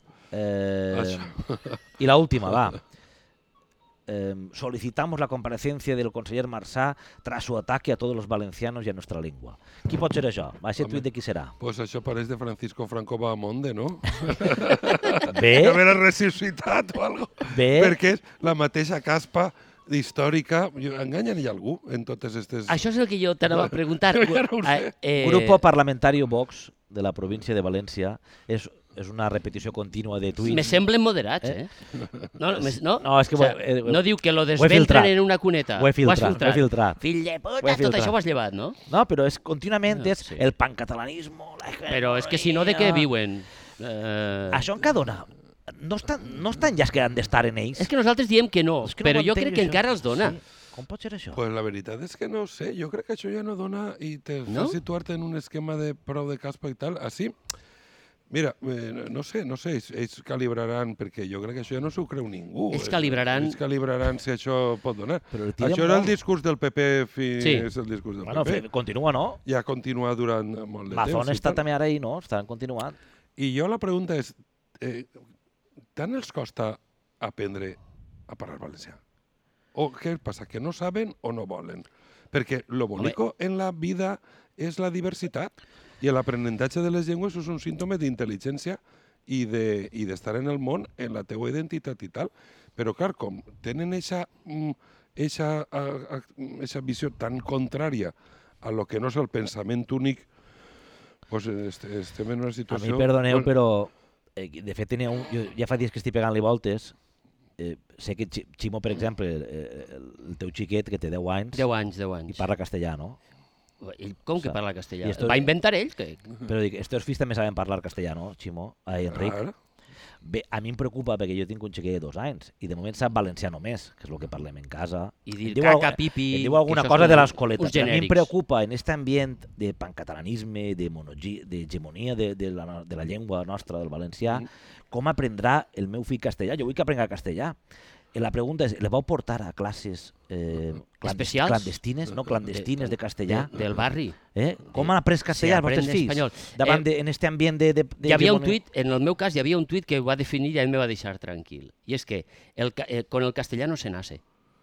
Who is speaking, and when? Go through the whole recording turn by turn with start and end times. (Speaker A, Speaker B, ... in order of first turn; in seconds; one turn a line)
Speaker A: 0.3-1.3
Speaker B: 0.9-1.8
Speaker A: 2.0-2.8
Speaker A: 4.1-11.5
Speaker B: 11.6-22.8
Speaker A: 15.2-15.8
Speaker A: 17.5-18.0
Speaker C: 22.7-25.6
Speaker B: 23.5-24.9
Speaker A: 25.2-30.8
Speaker C: 30.5-31.7
Speaker C: 32.4-38.8
Speaker A: 32.6-34.0
Speaker A: 34.5-35.1
Speaker A: 35.8-37.0
Speaker A: 37.6-38.1
Speaker A: 38.9-43.1
Speaker C: 39.9-40.4
Speaker C: 41.9-44.7
Speaker A: 44.5-47.9
Speaker C: 47.8-50.4
Speaker A: 48.8-51.4
Speaker B: 51.3-57.3
Speaker C: 54.5-54.8
Speaker B: 58.3-68.6
Speaker C: 62.7-63.6
Speaker A: 65.3-66.1
Speaker C: 67.4-67.7
Speaker A: 68.2-69.4
Speaker B: 69.4-71.6
Speaker A: 70.9-73.0
Speaker B: 73.4-75.1
Speaker B: 76.0-79.0
Speaker B: 79.7-100.2
Speaker B: 101.3-103.5
Speaker A: 102.7-106.9
Speaker A: 107.6-111.7
Speaker C: 111.5-112.5
Speaker A: 112.3-113.2
Speaker C: 113.8-116.2
Speaker A: 114.4-115.5
Speaker A: 116.5-119.4
Speaker B: 119.1-119.5
Speaker A: 120.2-137.6
Speaker C: 125.3-128.3
Speaker A: 138.1-143.5
Speaker C: 141.0-141.8
Speaker C: 142.5-144.2
Speaker A: 144.3-148.6
Speaker C: 144.7-146.8
Speaker C: 148.0-154.2